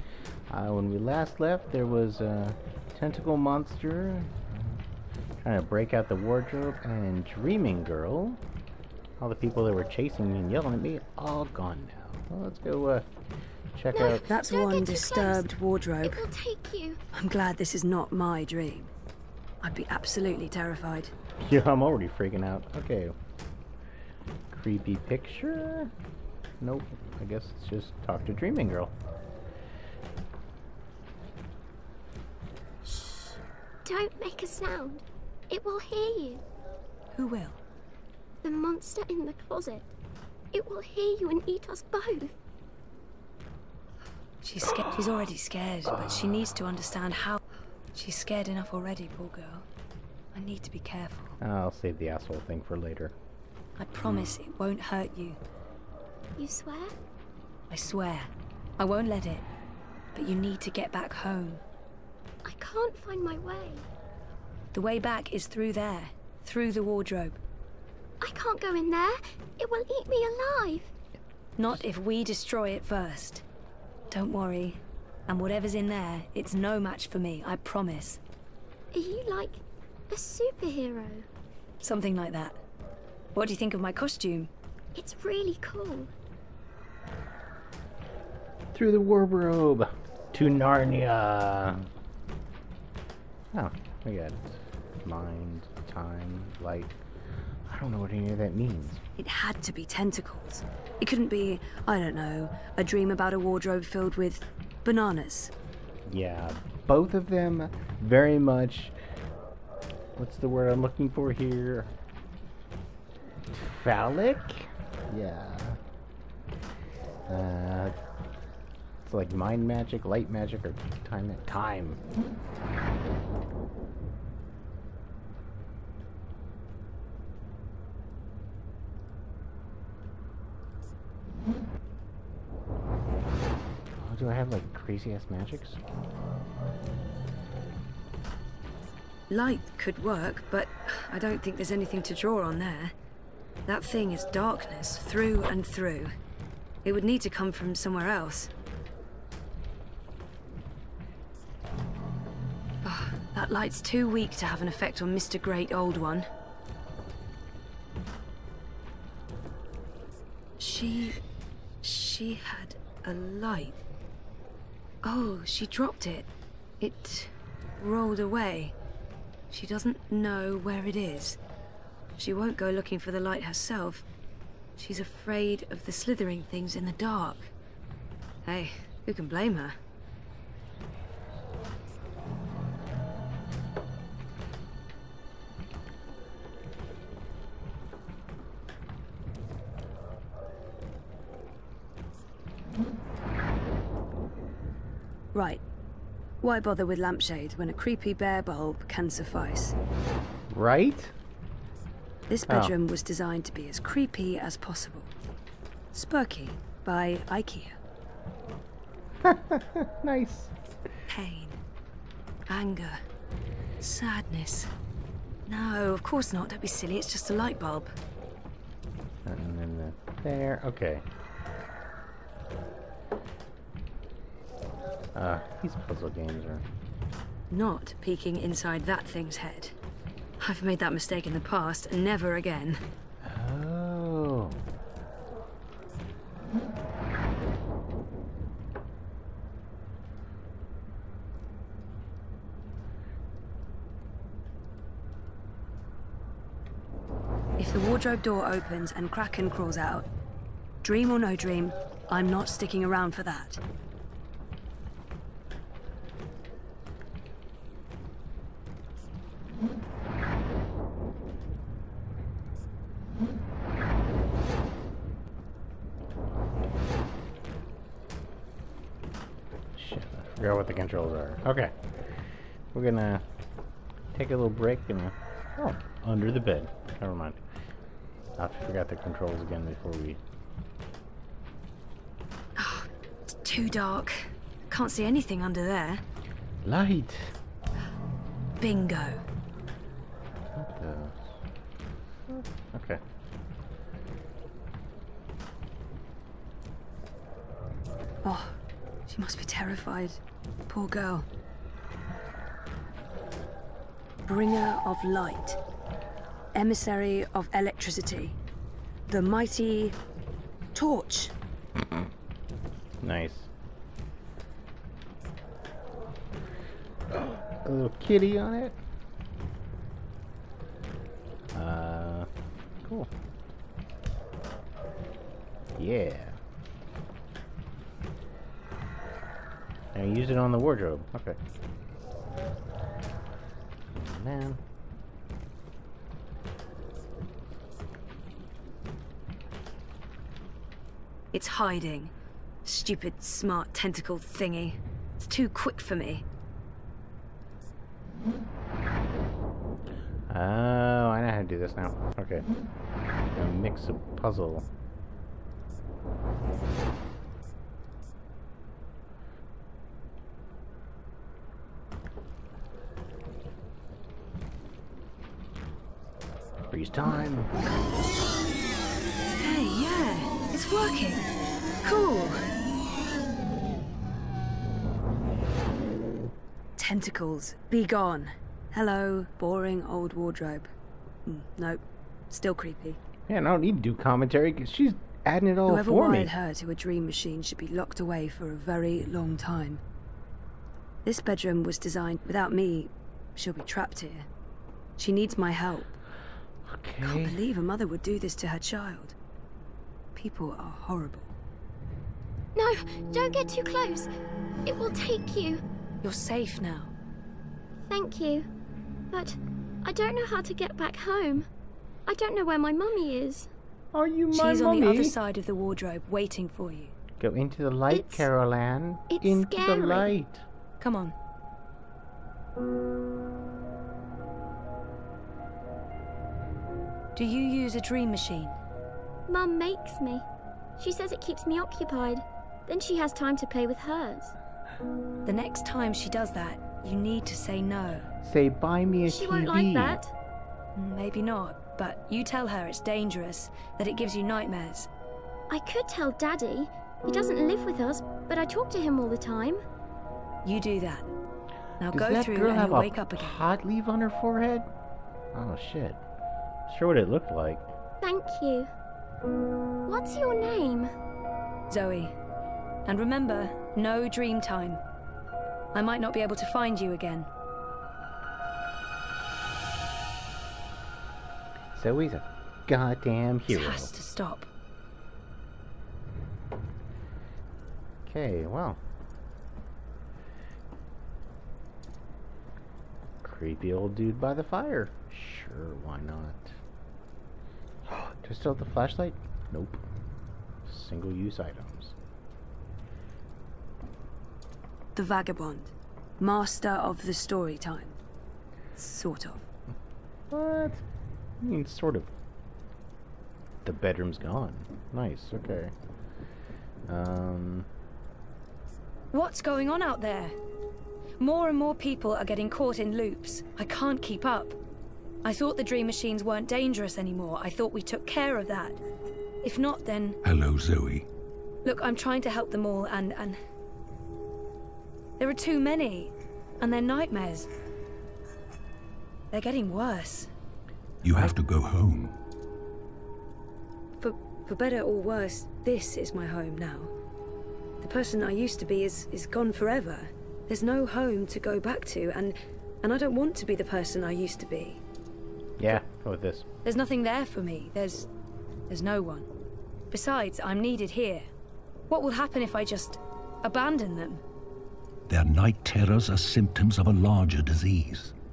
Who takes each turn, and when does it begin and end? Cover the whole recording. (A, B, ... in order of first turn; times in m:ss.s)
0:00.5-0:04.8 A
0:05.4-0:08.4 A
0:09.2-0:13.1 A
0:13.8-0:14.2 A
0:13.9-0:15.5 B
0:14.2-0:16.3 C
0:16.0-0:17.0 B
0:17.1-0:18.9 C
0:19.6-0:21.1 C
0:21.4-0:23.2 A
0:24.5-0:25.9 A
0:26.6-0:28.9 A
0:32.8-0:36.4 B
0:37.1-0:37.6 C
0:38.4-0:39.9 B
0:40.5-0:42.4 B
0:44.4-0:47.4 C
0:46.0-0:46.4 A
0:47.9-0:49.6 C
0:50.3-0:51.4 C
0:51.4-0:53.1 A
0:53.8-0:55.4 C
0:56.4-0:57.0 B
0:57.7-0:59.5 C
1:00.1-1:01.6 C
1:02.4-1:03.8 B
1:04.7-1:07.4 C
1:08.2-1:10.9 B
1:11.6-1:13.4 C
1:14.1-1:18.2 C
1:18.9-1:21.3 B
1:21.8-1:22.6 C
1:23.4-1:24.5 C
1:25.0-1:26.1 B
1:28.7-1:31.9 A
1:33.5-1:37.0 A
1:37.7-1:39.0 A
1:39.2-1:45.5 C
1:46.1-1:49.0 A
1:50.2-1:51.9 A
1:53.5-1:55.8 A
1:57.3-1:58.0 A
1:59.0-2:02.0 A
2:14.0-2:15.8 A
2:19.3-2:22.9 C
2:23.7-2:26.1 C
2:26.8-2:28.5 C
2:32.8-2:36.3 C
2:40.6-2:41.2 C
2:41.8-2:43.8 C
2:45.0-2:46.3 C
2:46.8-2:48.8 C
2:49.5-2:51.4 C
2:52.2-2:54.1 C
2:54.8-2:57.5 C
2:58.4-2:59.8 C
3:15.3-3:15.6 C
3:16.4-3:19.8 C
3:20.5-3:21.1 A
3:22.3-3:25.1 C
3:22.5-3:22.7 A
3:25.9-3:27.8 C
3:29.2-3:30.5 A
3:31.1-3:31.6 C
3:32.5-3:33.0 C
3:33.8-3:34.7 C
3:35.5-3:37.9 C
3:39.2-3:41.1 A
3:45.2-3:46.6 A
3:47.5-3:49.8 C
3:50.4-3:52.8 C
3:53.2-3:54.6 A
4:07.6-4:10.1 C
4:10.8-4:13.6 C
4:29.8-4:31.8 A
4:32.7-4:33.2 A
4:34.1-4:37.4 A
4:38.4-4:40.2 A
4:42.6-4:46.0 C
4:46.6-4:47.4 A
4:48.6-4:49.2 C
4:50.6-4:51.2 A
4:52.3-4:53.0 A
4:58.2-5:01.3 C
5:04.2-5:05.6 C
5:06.5-5:08.4 C
5:09.1-5:10.0 C
5:10.7-5:11.3 C
5:13.0-5:13.5 A
5:17.1-5:18.8 A
5:21.5-5:22.3 A
5:25.8-5:26.4 A
5:29.9-5:31.4 A
5:33.9-5:34.6 A
5:41.3-5:42.1 C
5:42.6-5:46.2 C
5:50.3-5:52.5 A
5:53.3-5:54.7 A
6:06.7-6:07.5 A
6:09.4-6:11.3 C
6:11.8-6:12.5 C
6:16.8-6:20.7 C
6:21.3-6:23.0 C
6:23.3-6:26.3 A
6:25.7-6:29.8 C
6:31.0-6:34.3 C
6:35.0-6:35.9 C
6:36.7-6:37.4 A
6:37.0-6:39.2 C
6:40.2-6:41.3 C
6:42.6-6:44.1 B
6:44.7-6:45.6 B
6:46.0-6:46.9 C
6:47.9-6:48.5 B
6:49.1-6:51.5 B
6:52.1-6:53.5 B
6:53.9-6:55.2 A
6:54.3-6:56.9 C
6:57.2-7:00.4 A
6:57.9-6:58.3 B
6:59.1-7:00.1 B
7:00.8-7:01.1 C
7:07.2-7:08.6 C
7:09.3-7:10.3 B
7:10.8-7:14.3 B
7:15.2-7:18.1 C
7:18.2-7:20.0 A
7:19.0-7:20.1 B
7:20.8-7:24.9 C
7:25.5-7:29.6 B
7:30.4-7:31.1 C
7:31.8-7:33.4 C
7:31.9-7:34.7 A
7:35.3-7:36.0 A
7:36.7-7:37.7 A
7:38.0-7:38.7 B
7:39.9-7:40.9 B
7:41.7-7:42.1 C
7:42.9-7:44.8 C
7:45.7-7:47.3 C
7:51.7-7:53.9 A
7:53.5-7:54.5 C
7:58.1-7:58.8 A
8:03.2-8:06.6 A
8:07.9-8:09.8 A
8:10.6-8:12.0 A
8:15.0-8:18.0 C
8:18.8-8:19.5 C
8:20.3-8:20.8 A
8:21.4-8:22.1 A
8:23.6-8:25.7 A
8:26.9-8:27.7 A
8:29.1-8:30.4 C
8:31.2-8:34.6 C
8:35.2-8:38.8 C
8:39.4-8:40.2 C
8:40.2-8:41.1 D
8:41.6-8:43.4 C
8:45.2-8:47.5 C
8:49.3-8:50.3 C
8:51.0-8:52.2 D
8:54.0-8:56.9 C
8:57.8-9:04.8 C
9:05.6-9:06.5 A
9:06.6-9:08.1 C
9:08.7-9:09.3 C
9:09.9-9:11.3 C
9:11.9-9:14.2 C
9:15.1-9:18.2 D